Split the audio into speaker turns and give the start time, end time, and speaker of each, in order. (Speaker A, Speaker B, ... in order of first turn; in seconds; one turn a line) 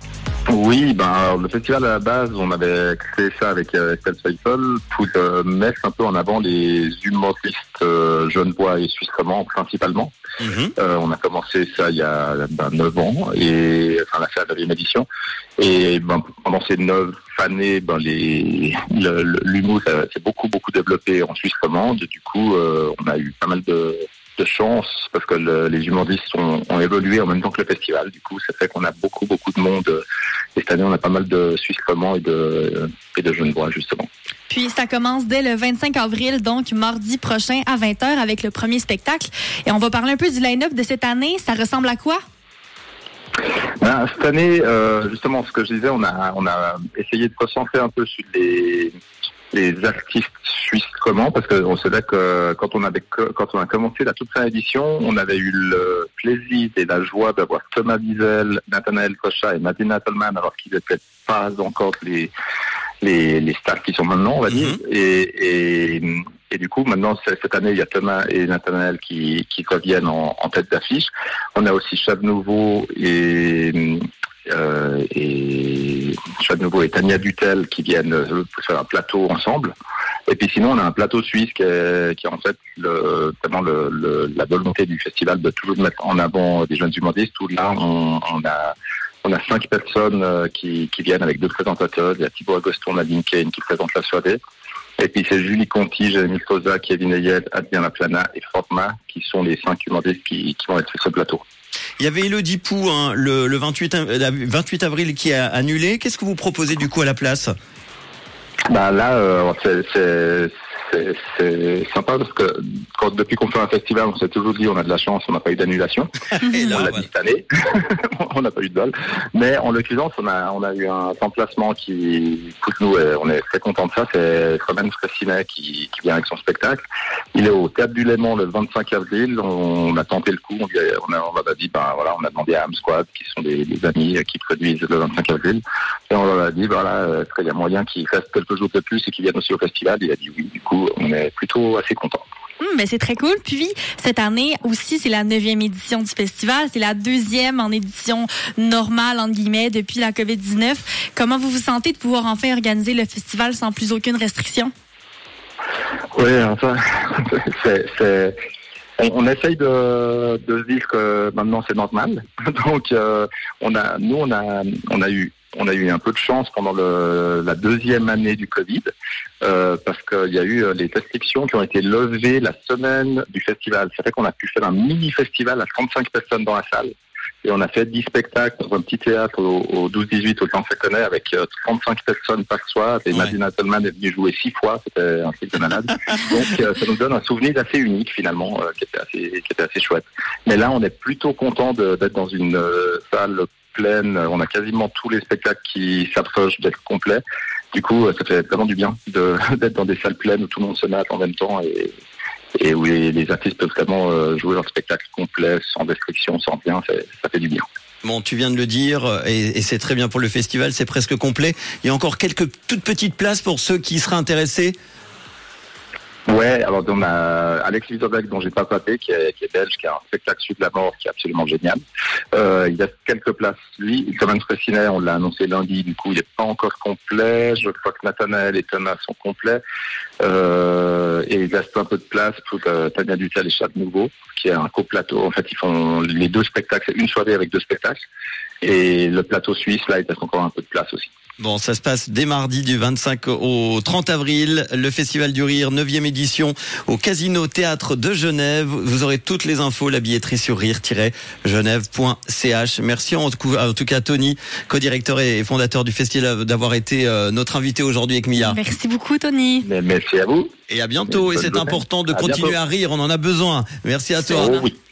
Speaker A: 0.5-10.1
Speaker B: 10.4-10.7
Speaker A: 10.8-15.1
Speaker A: 15.6-30.0
Speaker A: 30.6-34.1
Speaker C: 34.5-42.2
Speaker A: 43.8-49.0
Speaker A: 49.5-62.3
Speaker A: 63.0-79.7
Speaker A: 80.3-94.4
Speaker A: 95.0-101.4
Speaker B: 102.0-107.5
Speaker A: 108.7-126.8
Speaker B: 116.4-117.1
Speaker A: 127.3-142.2
Speaker C: 142.6-154.7
Speaker A: 156.1-158.4
Speaker A: 159.0-168.9
Speaker A: 169.4-176.9
Speaker A: 177.4-197.2
Speaker A: 197.7-201.9
Speaker A: 202.6-207.6
Speaker B: 208.0-214.8
Speaker A: 216.3-221.8
Speaker A: 222.3-229.6
Speaker A: 230.2-238.0
Speaker A: 238.6-241.1
Speaker B: 241.4-258.6
Speaker C: 258.4-259.7
Speaker A: 259.6-260.5
Speaker B: 260.7-264.6
Speaker A: 261.1-262.6
Speaker C: 264.3-264.7
Speaker A: 264.3-264.8